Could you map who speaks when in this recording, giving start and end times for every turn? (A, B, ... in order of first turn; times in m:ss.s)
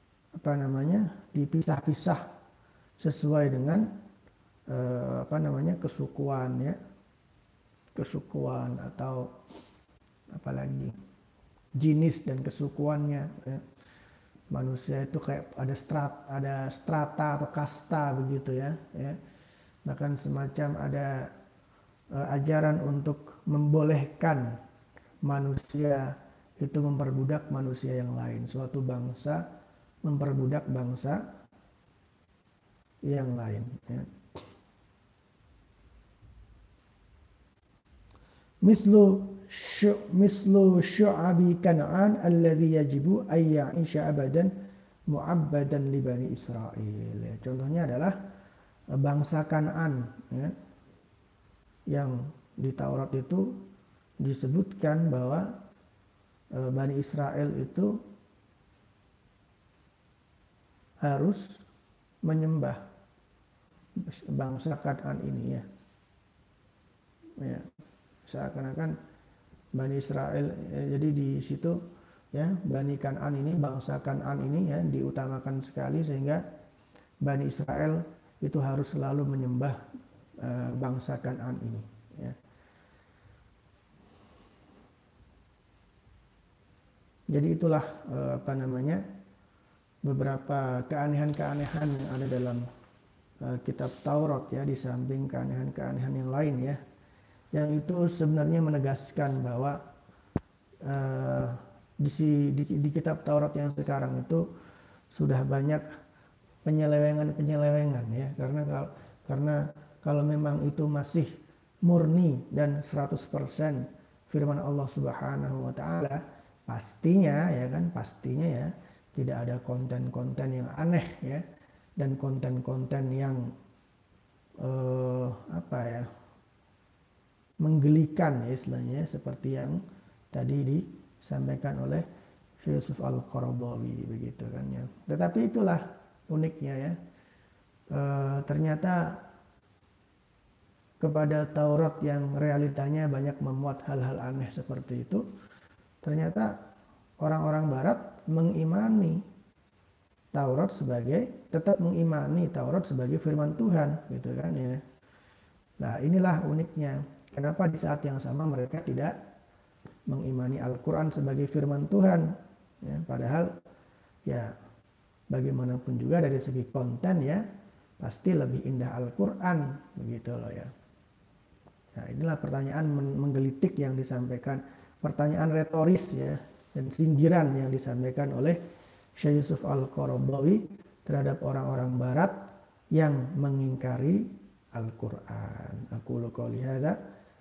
0:00.4-0:02.3 A
0:03.0-0:03.9 A
0:04.7-0:06.8 A
0:08.0-0:09.3 A
0:10.3-0:10.9 A
0:11.8-0:13.6 A
0:14.5-0:19.2 A
0:19.8-0:21.3 A
0:22.1-0:24.5 A
0:25.2-0:29.4 A
0:30.0-0:31.2 A
0:33.1-0:34.1 A
0:38.6-0:44.5 A
0:45.1-0:48.2 A
0:49.0-0:50.5 A
0:51.9-0:53.6 A
0:54.2-0:55.5 A
0:56.5-0:58.0 A
1:01.0-1:01.6 A
1:02.2-1:02.8 A
1:04.0-1:05.6 A
1:07.4-1:07.7 A
1:08.3-1:08.9 A
1:09.8-1:11.8 A
1:12.3-1:16.4 A
1:17.2-1:19.8 A
1:20.4-1:22.4 A
1:27.3-1:29.0 A
1:30.0-1:32.7 A
1:33.4-1:36.8 A
1:37.5-1:39.8 A
1:40.8-1:44.4 A
1:45.1-1:45.8 A
1:46.6-1:51.3 A
1:51.8-2:01.4 A
2:02.0-2:03.5 A
2:04.6-2:06.1 A
2:07.6-2:09.8 A
2:10.3-2:12.0 A
2:12.6-2:17.0 A
2:17.9-2:19.2 A
2:21.0-2:25.2 A
2:26.0-2:26.6 A
2:27.2-2:29.2 A
2:30.3-2:34.8 A
2:35.8-2:39.2 A
2:40.1-2:43.5 A
2:44.3-2:44.6 A
2:45.3-2:47.4 A
2:48.0-2:50.7 A
2:52.0-2:58.6 A
2:59.2-3:07.0 A